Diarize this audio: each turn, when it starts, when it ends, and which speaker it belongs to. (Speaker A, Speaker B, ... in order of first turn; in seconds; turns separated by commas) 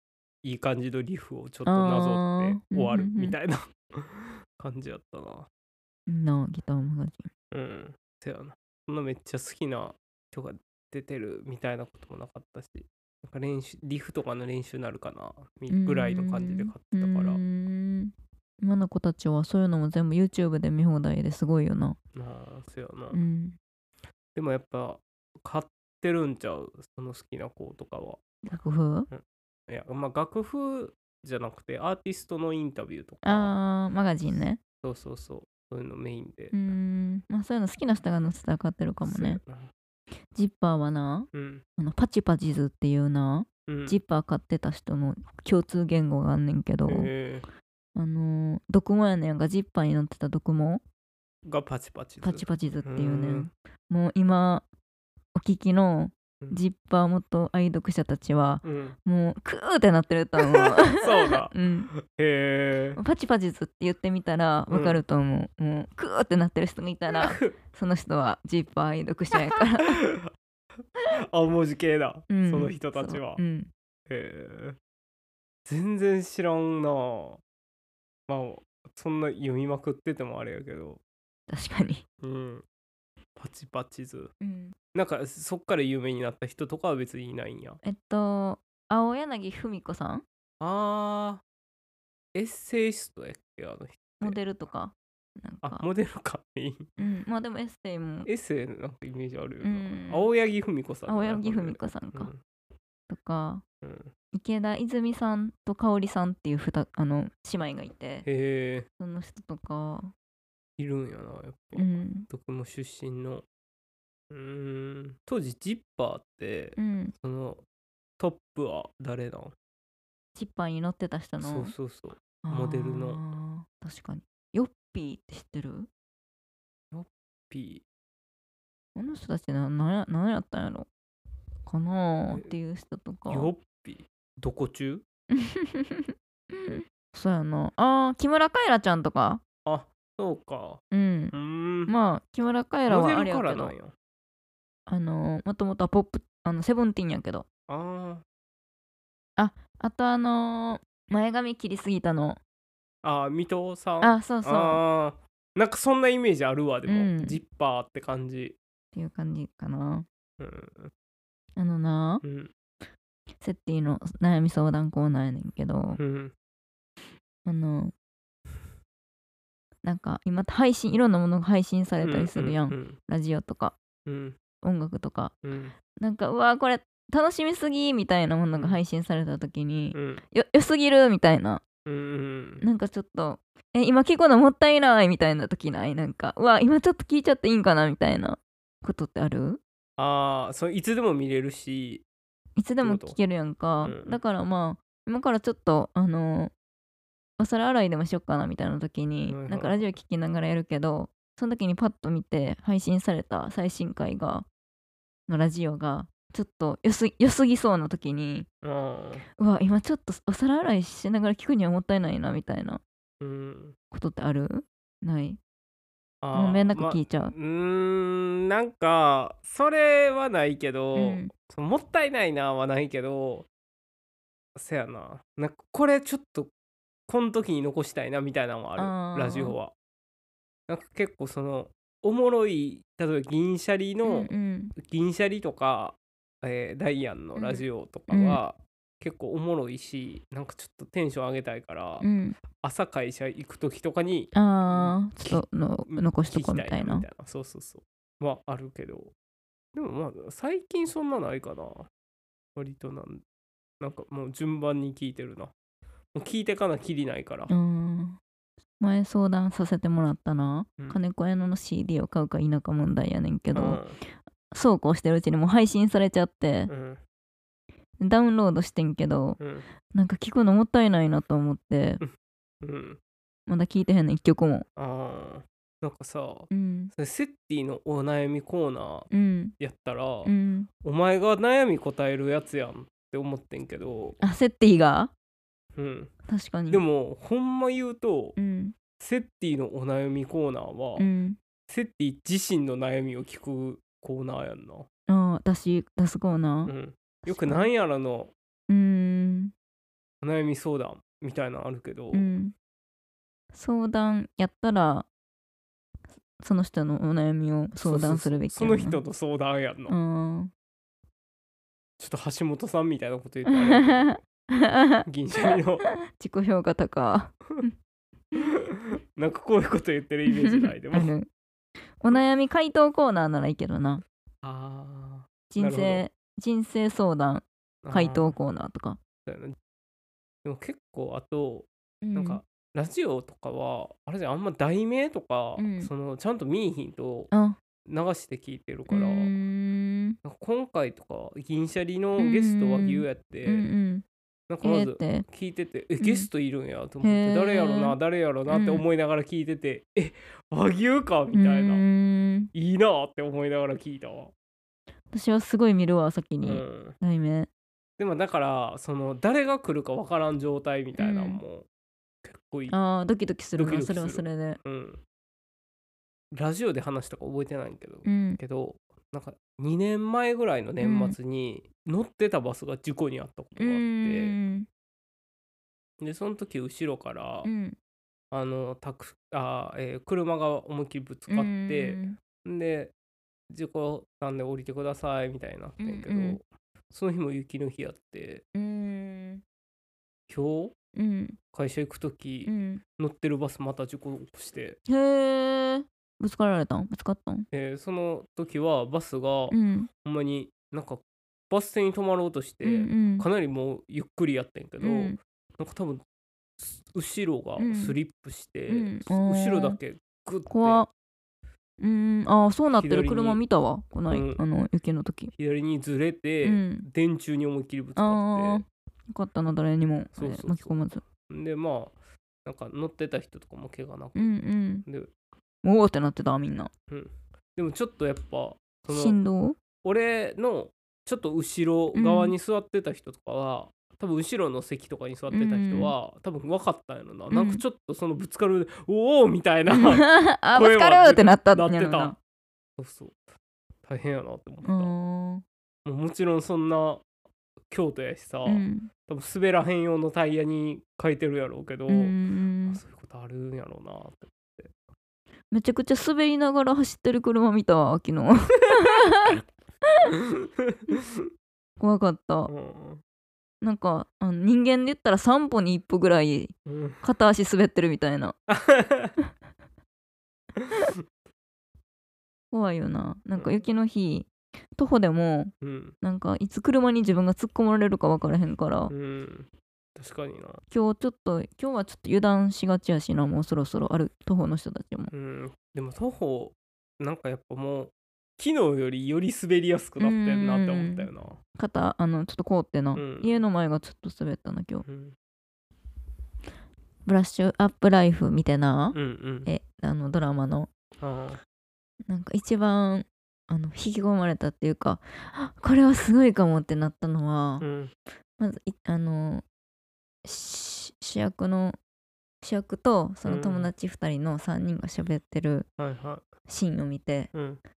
Speaker A: 0.4-5.5, Speaker B: 1.7-3.4, Speaker B: 6.1-7.3, Speaker A: 7.5-17.4, Speaker B: 15.7-22.0, Speaker A: 22.1-23.2, Speaker B: 23.1-23.6, Speaker A: 24.4-28.2, Speaker B: 28.5-29.1, Speaker A: 29.1-33.5, Speaker B: 33.2-34.6, Speaker A: 34.8-36.7, Speaker B: 36.5-39.4, Speaker A: 39.0-39.7, Speaker B: 40.4-47.1, Speaker A: 41.3-41.6, Speaker A: 43.7-44.0, Speaker A: 46.9-47.5, Speaker B: 48.0-50.8, Speaker A: 51.5-53.5, Speaker B: 52.2-54.7, Speaker B: 55.4-61.9, Speaker A: 58.6-59.0, Speaker A: 60.5-63.0, Speaker B: 63.0-70.0, Speaker A: 64.7-65.0, Speaker A: 67.1-67.5, Speaker A: 69.5-70.3, Speaker A: 71.0-73.4, Speaker B: 72.3-73.7, Speaker A: 74.1-74.8, Speaker A: 75.7-77.4, Speaker A: 78.3-81.0, Speaker B: 81.5-82.0, Speaker A: 82.2-82.7, Speaker A: 83.4-84.3, Speaker B: 84.4-84.8, Speaker A: 84.9-87.8, Speaker B: 87.8-90.2, Speaker A: 90.6-91.4, Speaker A: 92.3-94.4, Speaker B: 94.2-95.8, Speaker A: 95.6-96.9, Speaker B: 97.0-98.3, Speaker A: 98.3-102.4, Speaker B: 99.6-100.3, Speaker B: 101.1-102.3, Speaker B: 103.1-103.6, Speaker A: 103.8-104.1, Speaker B: 104.3-108.3, Speaker A: 108.2-108.9, Speaker B: 109.0-110.1, Speaker A: 110.8-113.5, Speaker B: 111.8-112.3, Speaker A: 114.3-117.6, Speaker B: 116.8-117.1, Speaker A: 118.2-119.5, Speaker B: 120.3-121.7, Speaker A: 121.4-123.2, Speaker B: 122.4-125.9, Speaker A: 126.9-127.8, Speaker B: 129.0-130.9, Speaker B: 131.7-133.5, Speaker A: 133.3-135.0, Speaker B: 135.3-139.4, Speaker A: 139.7-140.8, Speaker B: 140.9-141.3, Speaker A: 141.3-141.9, Speaker B: 141.9-143.7, Speaker A: 142.9-143.9, Speaker B: 144.9-147.5, Speaker A: 147.7-148.2, Speaker B: 149.4-152.4, Speaker A: 153.0-158.6, Speaker B: 154.0-154.8, Speaker B: 156.9-157.4, Speaker B: 158.9-160.1, Speaker A: 160.4-160.9, Speaker B: 161.6-162.2, Speaker A: 162.2-162.5, Speaker B: 163.4-166.0, Speaker A: 166.0-166.3, Speaker B: 167.4-167.9, Speaker B: 169.8-173.8, Speaker A: 172.0-173.0, Speaker A: 174.1-174.4, Speaker B: 174.6-175.3, Speaker A: 175.4-175.8, Speaker B: 176.0-181.6, Speaker A: 178.6-178.8, Speaker A: 179.9-180.2, Speaker A: 181.9-182.6, Speaker B: 182.6-189.6, Speaker A: 190.0-192.1, Speaker B: 192.6-196.5, Speaker A: 192.8-193.2, Speaker A: 193.8-194.2, Speaker B: 197.4-204.5, Speaker A: 199.3-199.8, Speaker B: 205.3-208.5, Speaker A: 208.6-209.2, Speaker B: 209.4-212.8, Speaker A: 213.2-213.8, Speaker B: 213.9-215.4, Speaker A: 216.2-223.5, Speaker B: 216.3-217.3, Speaker B: 220.9-221.3, Speaker A: 224.6-226.5, Speaker A: 227.1-229.7, Speaker B: 228.8-229.6, Speaker A: 230.7-249.1, Speaker B: 234.1-234.7, Speaker B: 237.4-238.4, Speaker B: 242.0-242.4, Speaker B: 244.3-247.1, Speaker A: 249.7-251.9, Speaker A: 252.6-253.2, Speaker A: 253.8-255.5, Speaker A: 256.1-257.5, Speaker B: 257.5-258.2, Speaker B: 258.8-263.8, Speaker A: 263.5-264.0, Speaker B: 264.5-266.7, Speaker A: 266.7-267.0, Speaker B: 268.0-269.4, Speaker A: 269.4-269.7, Speaker B: 269.9-272.0, Speaker A: 272.6-273.0, Speaker B: 273.5-274.7, Speaker A: 274.8-284.2, Speaker B: 276.5-276.9, Speaker B: 279.1-279.6, Speaker B: 280.2-280.7, Speaker B: 284.2-285.1, Speaker A: 285.8-286.1, Speaker B: 286.3-286.8, Speaker A: 286.7-288.4, Speaker B: 288.4-288.8, Speaker A: 289.0-291.1, Speaker B: 291.0-291.4, Speaker A: 291.7-294.9, Speaker B: 295.1-296.7, Speaker A: 296.7-298.3, Speaker B: 297.3-297.7, Speaker B: 298.7-299.5, Speaker A: 300.2-302.3, Speaker B: 302.1-302.5, Speaker B: 303.5-305.1, Speaker B: 306.4-309.0, Speaker A: 307.8-310.0, Speaker B: 309.9-310.5, Speaker A: 312.0-314.2, Speaker B: 313.5-315.0, Speaker A: 315.1-315.9, Speaker B: 316.1-317.8, Speaker A: 318.4-321.1, Speaker B: 320.3-321.3, Speaker B: 322.0-324.0, Speaker A: 324.4-326.0, Speaker B: 325.5-329.0, Speaker A: 327.8-328.4, Speaker A: 329.3-329.6, Speaker A: 330.4-337.3, Speaker B: 332.0-332.4, Speaker B: 335.6-335.9, Speaker B: 337.3-337.6, Speaker A: 337.9-339.3, Speaker B: 338.9-340.2, Speaker A: 340.2-343.7, Speaker B: 342.2-344.1, Speaker A: 344.5-351.9, Speaker B: 344.6-345.3, Speaker B: 346.0-346.3, Speaker B: 347.0-348.0, Speaker B: 348.5-348.8, Speaker B: 351.3-352.5, Speaker A: 352.5-354.3, Speaker B: 355.1-357.5, Speaker A: 356.4-357.0, Speaker A: 358.0-361.7, Speaker B: 361.0-361.4, Speaker A: 362.2-362.8, Speaker B: 362.7-364.6, Speaker A: 363.6-365.0, Speaker A: 366.3-374.4, Speaker B: 368.1-368.4, Speaker B: 370.8-371.2, Speaker B: 373.6-374.7, Speaker A: 376.0-377.5, Speaker B: 377.4-377.8, Speaker A: 378.3-382.9, Speaker B: 381.3-382.2, Speaker A: 383.5-388.4, Speaker B: 385.8-386.4, Speaker B: 388.5-389.4, Speaker A: 390.3-390.8, Speaker B: 391.0-391.4, Speaker A: 391.5-394.8, Speaker B: 392.4-392.8, Speaker B: 394.9-397.5, Speaker A: 397.5-406.0, Speaker B: 399.5-399.9, Speaker B: 402.6-403.3, Speaker B: 404.8-405.2, Speaker A: 406.6-410.9, Speaker B: 407.6-408.0, Speaker B: 408.7-409.8, Speaker B: 410.5-410.9, Speaker B: 411.8-415.3, Speaker A: 412.7-413.4, Speaker A: 414.1-414.4, Speaker A: 415.4-418.6, Speaker B: 416.4-416.9, Speaker B: 418.0-421.0, Speaker A: 420.1-420.7, Speaker A: 421.3-424.3, Speaker B: 424.2-424.9, Speaker A: 424.9-425.1, Speaker B: 425.6-426.7, Speaker A: 426.9-429.2, Speaker B: 428.9-429.6, Speaker A: 429.8-442.2, Speaker B: 431.9-432.4, Speaker B: 435.3-435.9, Speaker B: 437.3-437.6, Speaker B: 439.7-442.2, Speaker A: 442.8-443.2, Speaker A: 443.9-444.9, Speaker B: 444.6-445.4, Speaker A: 445.9-447.1, Speaker A: 447.7-454.7, Speaker B: 448.5-448.9, Speaker B: 451.9-452.8, Speaker B: 455.5-459.4, Speaker A: 460.2-461.3, Speaker B: 461.8-462.5, Speaker A: 462.5-463.0, Speaker B: 463.6-468.4, Speaker A: 466.7-467.0, Speaker A: 468.5-469.1, Speaker A: 470.6-471.0, Speaker B: 472.5-478.9, Speaker A: 473.4-473.6, Speaker A: 475.6-476.0, Speaker A: 478.9-480.6, Speaker B: 480.7-485.1, Speaker A: 485.1-491.4, Speaker B: 490.0-494.9, Speaker A: 492.9-493.3, Speaker A: 494.9-495.1, Speaker B: 497.1-500.7, Speaker A: 498.9-499.5, Speaker A: 501.0-501.4, Speaker B: 502.1-507.7, Speaker A: 507.6-507.9, Speaker B: 508.4-509.4, Speaker B: 510.2-511.8, Speaker B: 512.4-515.7, Speaker A: 513.2-513.7, Speaker A: 515.8-516.2, Speaker B: 516.5-517.3, Speaker A: 517.3-517.6